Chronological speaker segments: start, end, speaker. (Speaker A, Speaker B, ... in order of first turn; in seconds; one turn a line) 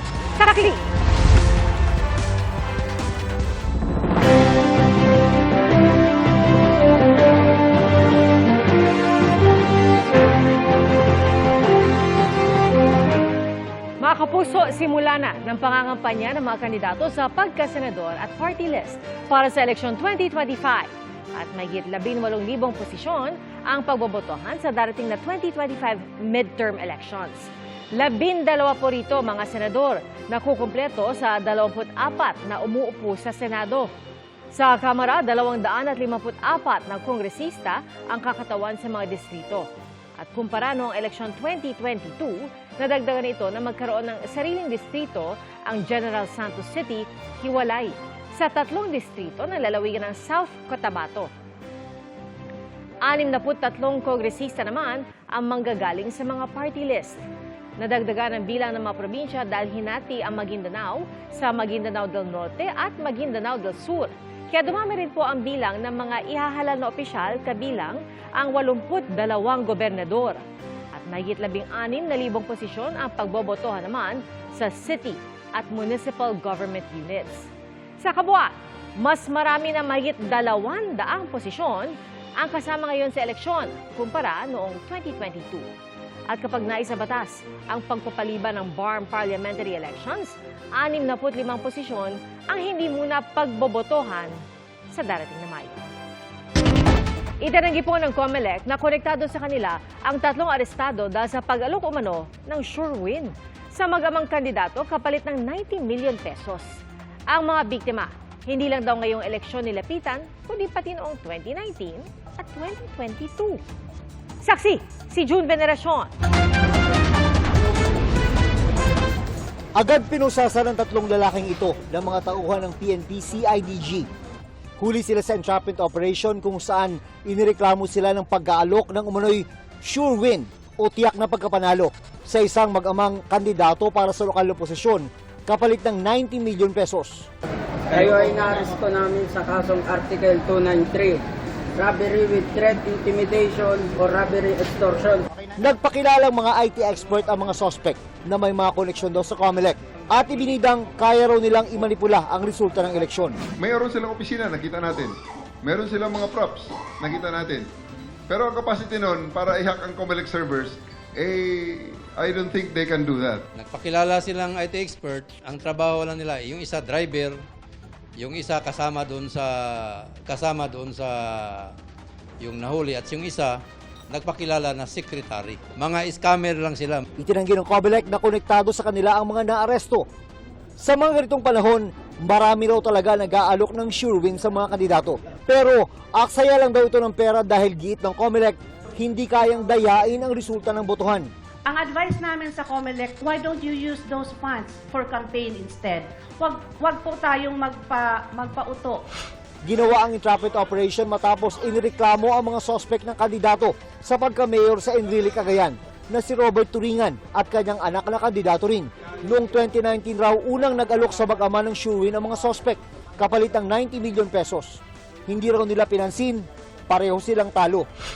Speaker A: 0.4-0.9
Speaker A: 14.0-33.9
Speaker A: 34.5-51.3
Speaker A: 53.0-57.2
Speaker A: 57.8-85.7
Speaker A: 86.3-95.8
Speaker A: 97.4-113.6
Speaker A: 114.4-116.1
Speaker B: 119.8-124.1
Speaker B: 124.8-137.3
Speaker C: 137.9-141.2
Speaker C: 141.8-145.2
Speaker B: 145.6-153.4
Speaker D: 153.6-155.1
Speaker D: 155.6-157.7
Speaker D: 158.3-163.4
Speaker E: 163.5-167.4
Speaker E: 168.2-171.7
Speaker E: 172.4-177.0
Speaker B: 177.2-180.1
Speaker B: 180.8-191.3
Speaker F: 191.7-199.0
Speaker B: 199.6-217.9